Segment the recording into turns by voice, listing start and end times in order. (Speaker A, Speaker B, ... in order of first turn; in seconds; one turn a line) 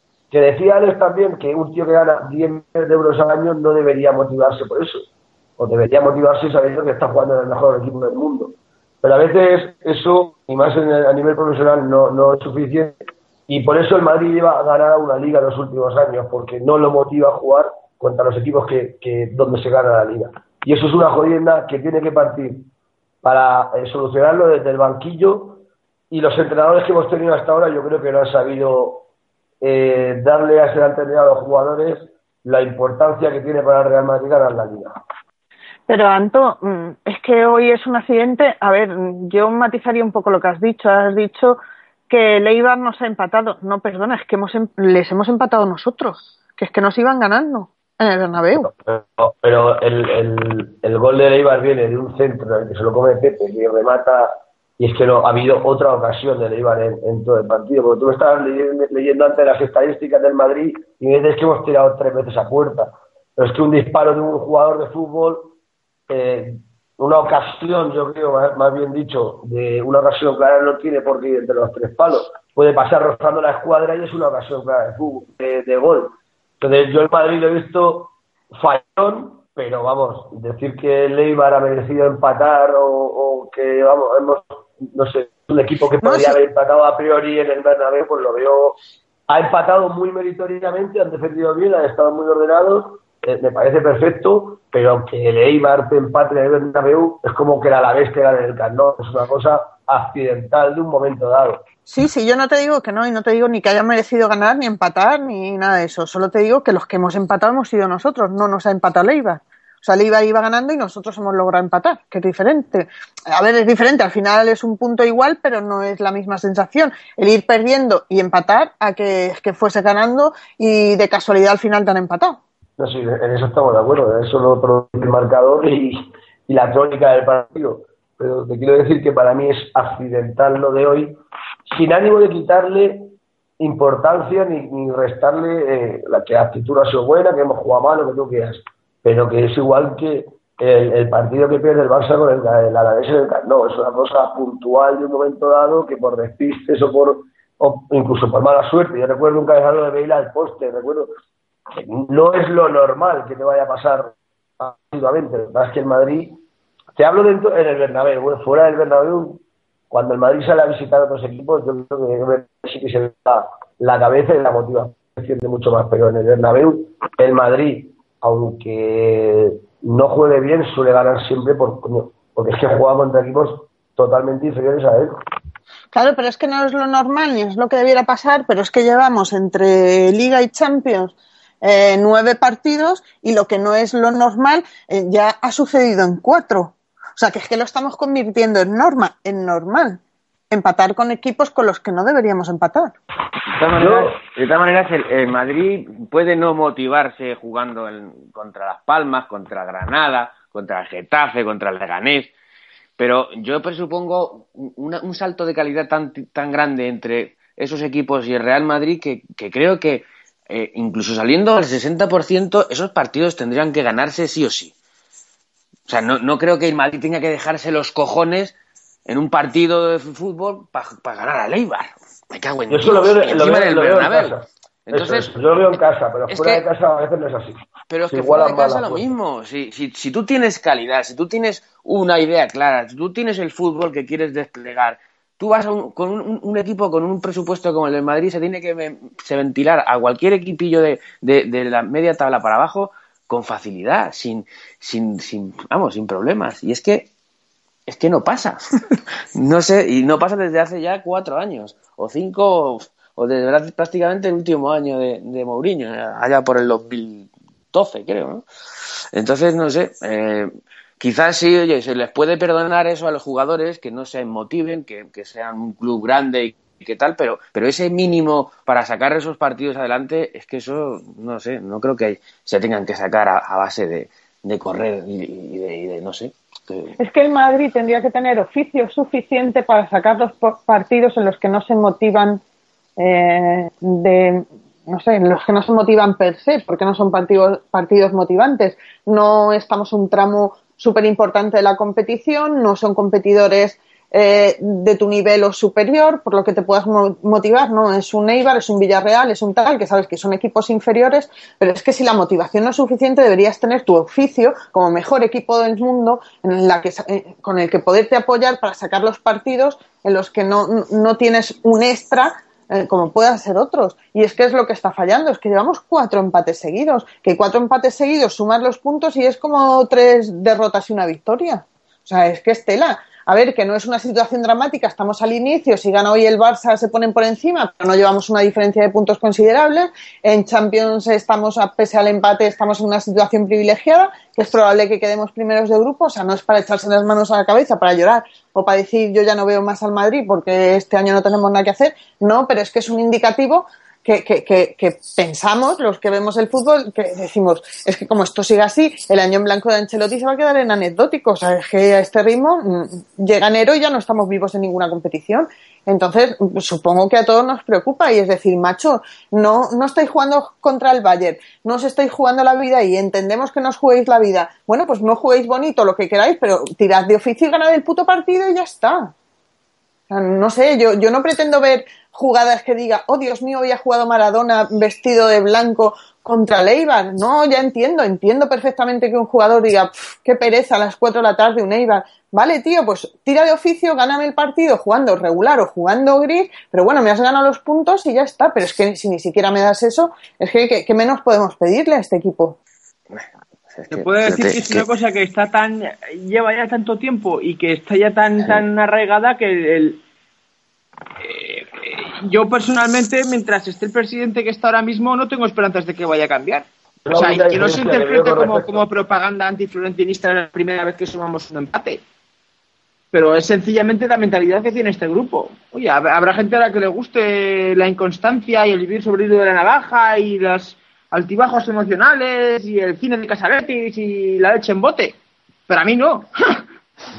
Speaker A: 0.3-22.7
Speaker A: 23.2-29.1
Speaker A: 29.6-34.9
Speaker B: 35.9-48.7
Speaker A: 48.6-65.5
Speaker A: 66.1-88.8
Speaker B: 86.0-86.3
Speaker A: 89.3-101.6
Speaker B: 101.9-122.4
Speaker A: 122.8-131.2
Speaker A: 131.7-151.1
Speaker A: 151.7-156.4
Speaker A: 156.9-175.1
Speaker B: 175.9-192.9
Speaker C: 193.6-202.3
Speaker A: 193.8-194.2
Speaker C: 203.0-214.7
Speaker C: 215.9-218.5
Speaker C: 219.1-225.3
Speaker A: 222.7-229.1
Speaker C: 226.3-226.6
Speaker C: 227.9-247.1
Speaker C: 247.9-248.6
Speaker C: 249.3-258.4
Speaker C: 259.1-276.9
Speaker B: 277.0-282.4
Speaker B: 283.0-369.1
Speaker B: 370.1-392.6
Speaker C: 393.1-394.8
Speaker D: 393.9-400.0
Speaker D: 401.2-412.0
Speaker A: 407.0-408.8
Speaker D: 413.1-425.1
Speaker D: 425.7-426.6